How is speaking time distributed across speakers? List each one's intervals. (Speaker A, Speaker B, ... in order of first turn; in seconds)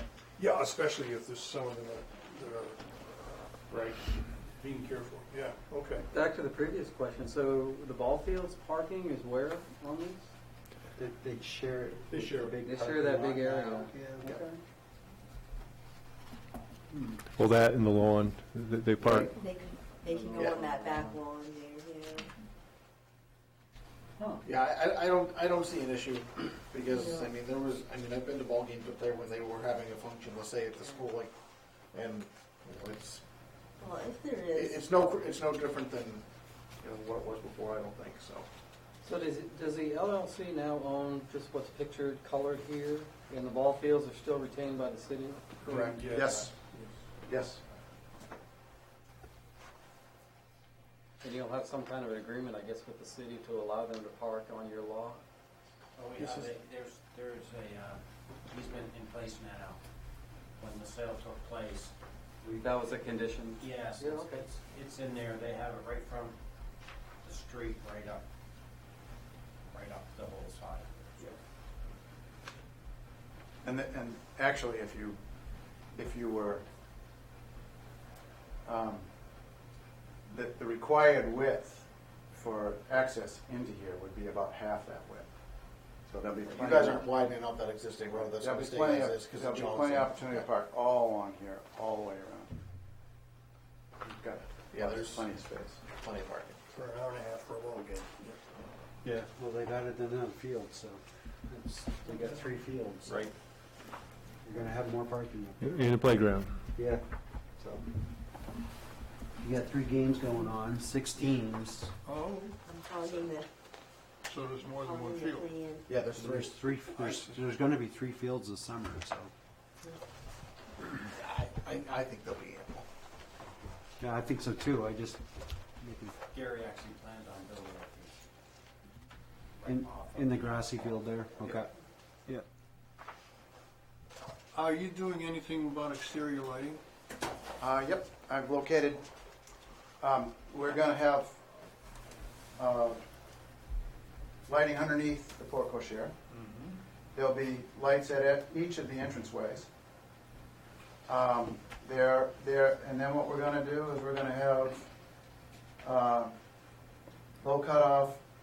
Speaker A: 0.4-6.1, 12.1-12.6, 45.7-46.9, 56.2-56.5, 96.7-98.1, 112.1-112.6, 114.2-115.5, 134.5-136.8, 146.3-146.7
Speaker B: 6.1-10.3, 12.6-14.6, 19.0-19.3, 20.0-21.2, 39.0-45.6, 51.2-55.2, 62.4-64.5
Speaker C: 11.0-14.3, 99.0-103.3, 104.4-106.0, 106.8-107.0, 107.6-107.8, 109.4-111.9, 116.1-119.3, 124.0-126.2, 129.7-131.7
Speaker D: 17.2-19.3, 105.6-106.7
Speaker E: 19.2-22.3, 26.9-27.3, 33.8-35.0, 112.7-113.5, 114.8-115.9
Speaker F: 24.4-31.3, 31.9-33.2, 34.5-36.2, 36.8-38.5, 86.5-90.5, 94.7-95.3, 96.0-96.6, 103.1-103.3, 115.9-117.0, 120.9-122.9
Speaker G: 45.7-46.5, 47.2-47.6, 73.6-75.2, 75.9-76.6, 78.7-79.1, 80.3-85.3, 86.1-87.1, 88.2-92.6, 94.0-95.8, 137.6-139.0, 140.0-141.4, 142.6-143.0, 144.5-146.1, 147.1-149.7, 151.1-154.9, 155.8-156.3, 157.4-158.2
Speaker H: 56.0-59.8, 60.6-61.9, 63.6-66.4, 67.2-68.2, 69.7-71.3, 126.3-128.2, 129.6-131.7